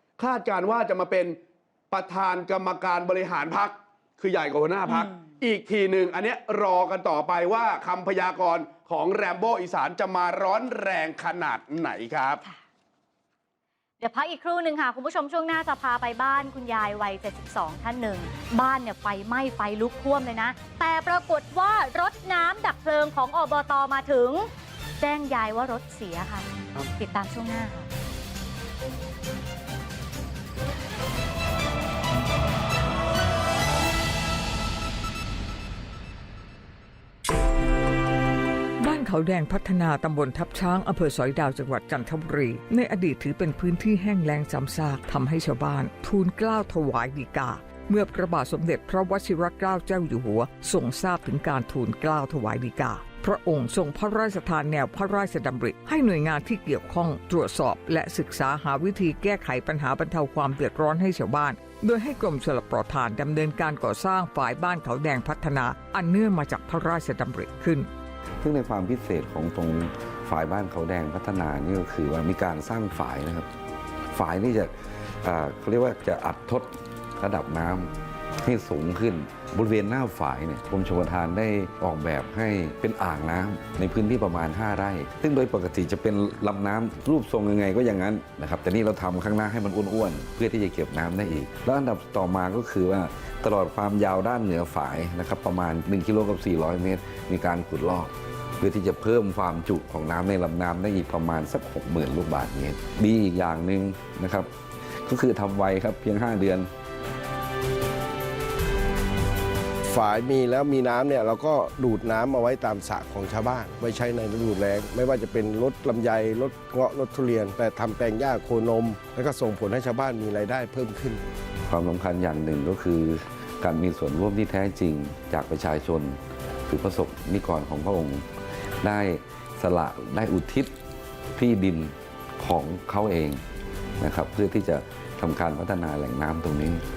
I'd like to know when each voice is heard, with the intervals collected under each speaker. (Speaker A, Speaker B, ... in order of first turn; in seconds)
Speaker A: 0.2-1.4, 1.9-12.4
Speaker B: 4.9-5.2, 14.0-27.9
Speaker C: 38.8-67.9
Speaker D: 68.4-73.5, 74.1-104.5, 105.0-106.7, 121.7-128.3, 128.8-130.7, 131.4-133.4, 134.0-136.8
Speaker E: 109.9-121.2